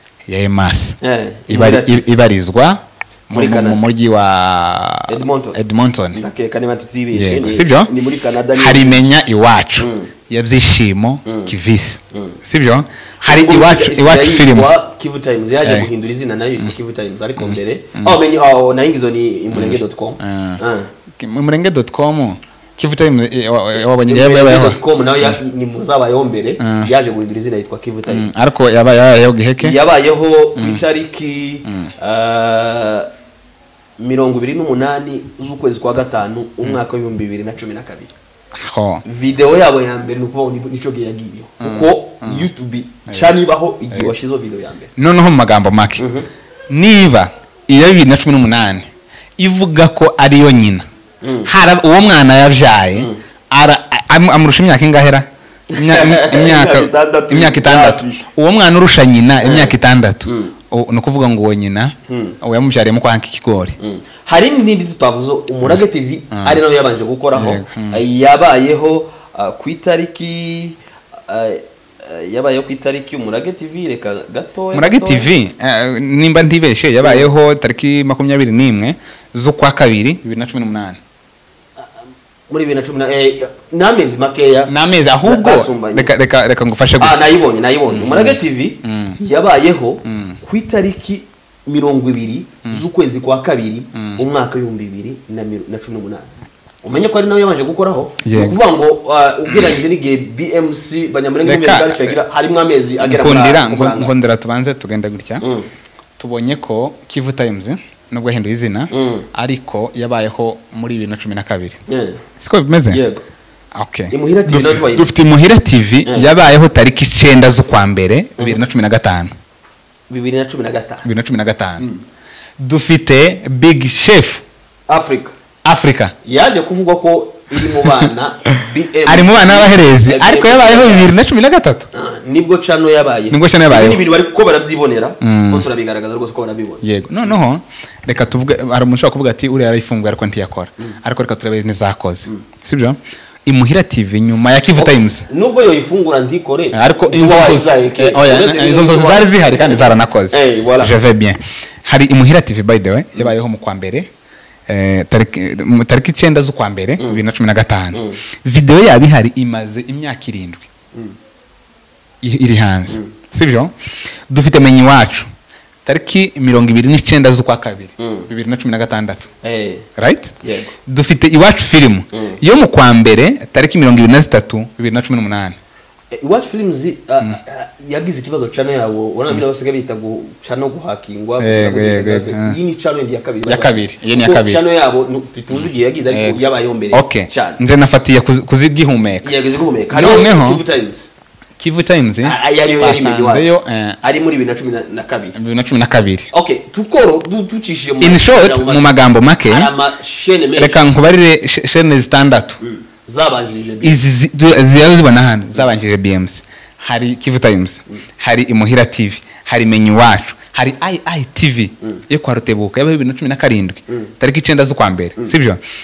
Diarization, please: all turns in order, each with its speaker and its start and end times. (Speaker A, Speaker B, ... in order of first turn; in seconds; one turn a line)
Speaker A: 0.3-6.2
Speaker B: 1.0-2.1
Speaker B: 3.3-3.8
Speaker B: 5.1-5.6
Speaker B: 6.1-9.1
Speaker A: 7.1-7.9
Speaker A: 8.5-14.7
Speaker B: 9.8-10.1
Speaker B: 11.3-11.5
Speaker B: 13.2-20.9
Speaker A: 15.6-15.9
Speaker A: 17.4-18.2
Speaker A: 19.5-20.6
Speaker A: 21.2-25.4
Speaker B: 24.1-28.3
Speaker A: 26.6-26.9
Speaker A: 28.1-29.8
Speaker B: 29.6-33.1
Speaker A: 30.6-30.8
Speaker A: 31.6-31.9
Speaker B: 34.0-38.1
Speaker A: 38.5-39.0
Speaker B: 39.1-44.9
Speaker A: 41.6-42.5
Speaker A: 43.1-43.4
Speaker A: 45.0-46.1
Speaker B: 46.0-46.3
Speaker A: 46.7-50.9
Speaker B: 51.2-51.5
Speaker A: 51.4-63.8
Speaker B: 55.7-58.2
Speaker B: 59.4-59.8
Speaker B: 60.3-60.5
Speaker B: 62.1-62.4
Speaker B: 63.8-75.3
Speaker A: 65.7-66.6
Speaker A: 67.3-68.0
Speaker A: 74.7-81.0
Speaker B: 77.0-77.3
Speaker B: 81.8-84.7
Speaker A: 84.7-87.3
Speaker B: 85.2-86.1
Speaker B: 87.0-96.3
Speaker A: 87.9-89.2
Speaker A: 90.0-90.4
Speaker A: 94.0-94.2
Speaker B: 96.8-104.1
Speaker A: 98.2-98.6
Speaker A: 99.5-99.8
Speaker A: 101.4-102.2
Speaker A: 103.0-105.5
Speaker B: 105.4-105.7
Speaker A: 106.2-111.8
Speaker B: 108.9-109.3
Speaker B: 111.9-112.2
Speaker A: 112.4-113.0
Speaker B: 112.9-113.2
Speaker A: 113.7-119.3
Speaker B: 114.1-115.1
Speaker B: 120.1-121.1
Speaker A: 121.0-121.9
Speaker A: 122.6-124.4
Speaker B: 124.9-125.3
Speaker A: 125.7-126.2
Speaker B: 126.2-131.1
Speaker A: 129.1-131.9
Speaker B: 131.9-137.3
Speaker A: 133.3-134.0
Speaker A: 135.2-135.7
Speaker A: 136.8-145.3
Speaker B: 144.8-150.9
Speaker A: 146.7-154.1
Speaker A: 154.7-160.7
Speaker B: 157.9-158.2
Speaker A: 162.2-163.7
Speaker A: 164.3-165.3
Speaker A: 165.9-169.3
Speaker B: 168.0-168.3
Speaker B: 169.4-169.9
Speaker A: 170.0-170.3
Speaker B: 170.4-170.7
Speaker A: 170.9-175.6
Speaker B: 172.1-172.4
Speaker B: 176.1-187.6
Speaker A: 181.4-182.6
Speaker A: 183.4-184.6
Speaker A: 185.5-186.4
Speaker A: 186.9-189.3
Speaker B: 189.2-191.1
Speaker A: 189.9-190.6
Speaker A: 191.6-194.0
Speaker B: 192.2-193.5
Speaker B: 194.0-195.4
Speaker A: 195.3-196.3
Speaker B: 196.3-198.9
Speaker A: 198.0-199.7
Speaker B: 199.5-200.8
Speaker A: 200.6-202.6
Speaker B: 202.6-204.0
Speaker A: 203.8-215.6